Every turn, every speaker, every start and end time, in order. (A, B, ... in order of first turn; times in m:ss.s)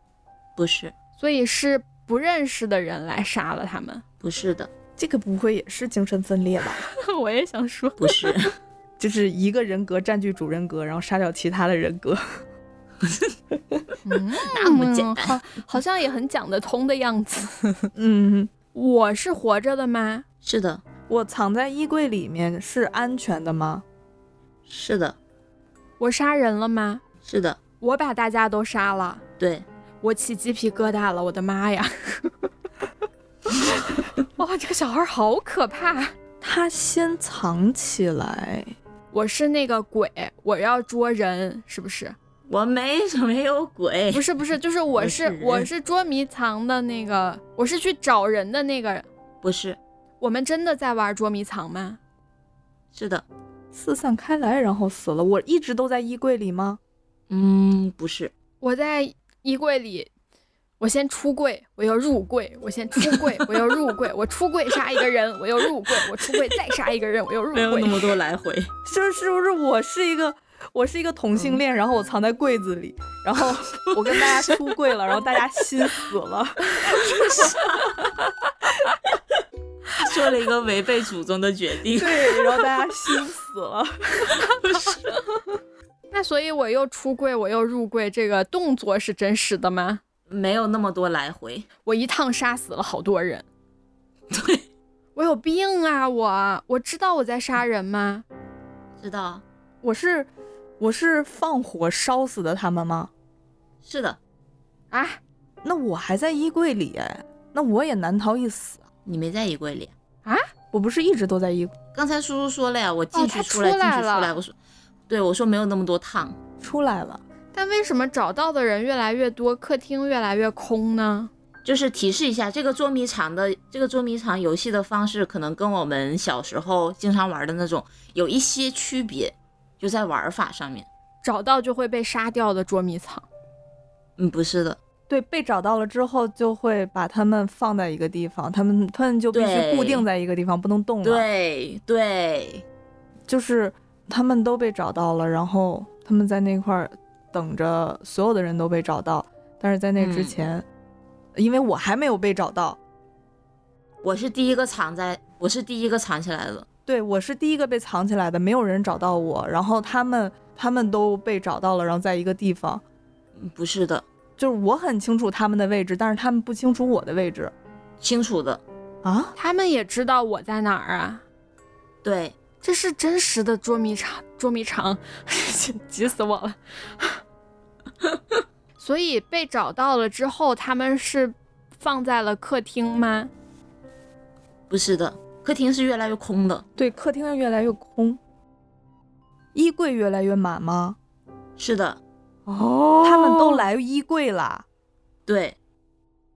0:00.6-0:00.9 A
0:01.2-0:04.0 B
0:04.2-0:04.7 A
0:05.0-0:06.9 C
0:06.8-0:08.5 B
0:08.0-0:08.5 A
0:09.0-0:12.4 C
0:13.0-0:13.3 A
0:14.0-0:17.9 B
0:14.4-0:15.4 A
0:18.0-0:18.5 C
0:18.7-0:20.2 B
0:20.4-0:20.8 A
0:21.1-0:23.8 C
0:24.7-0:25.2 A
0:26.0-0:27.0 B
0:27.3-0:27.6 A
0:27.8-0:29.2 B
0:29.4-0:29.7 A
0:30.0-0:32.5 B
0:33.5-0:36.2 B
0:36.4-0:38.7 C
0:39.1-0:42.2 B
0:42.5-0:44.4 A
0:44.1-0:49.1 B
0:45.0-0:45.7 A
0:49.4-0:49.8 A
0:50.2-0:52.0 B
0:52.9-0:53.2 A
0:53.7-0:56.8 C
0:57.3-0:58.3 A
0:58.6-1:00.1 B
1:00.8-1:08.1 B
1:07.5-1:08.7 A
1:08.8-1:17.6 C
1:13.7-1:14.6 A
1:17.0-1:18.0 A
1:20.0-1:22.7 A
1:21.9-1:24.5 C
1:24.6-1:25.0 A
1:26.1-1:30.0 B
1:30.3-1:31.7 A
1:31.8-1:33.5 B
1:34.3-1:34.6 A
1:35.2-1:38.2 B
1:39.0-1:39.4 A
1:39.8-1:40.3 C
1:40.8-1:43.1 C
1:43.8-1:44.2 A
1:44.9-1:45.2 B
1:45.6-1:48.8 C
1:49.1-1:49.9 A
1:50.7-1:51.8 C
1:51.9-1:54.5 A
1:53.1-1:54.4 B
1:55.1-1:56.4 A
1:56.6-1:57.2 C
1:57.5-2:01.3 B
2:01.6-2:10.9 A
2:11.2-2:13.3 B
2:14.2-2:14.8 A
2:15.1-2:21.2 C
2:19.3-2:20.0 A
2:21.0-2:22.6 A
2:23.3-2:30.6 C
2:30.0-2:30.4 A
2:31.4-2:32.8 C
2:34.0-2:36.7 A
2:36.9-2:42.8 C
2:43.4-2:44.0 A
2:44.4-2:47.5 C
2:48.0-2:48.6 A
2:49.0-2:49.3 C
2:49.4-2:51.2 B
2:52.0-2:52.4 A
2:52.6-2:57.2 B
2:58.8-3:03.3 B
3:04.7-3:06.6 A
3:06.8-3:08.2 C
3:09.6-3:11.0 C
3:11.6-3:12.0 A
3:12.5-3:14.6 C
3:13.0-3:13.6 A
3:15.3-3:15.6 A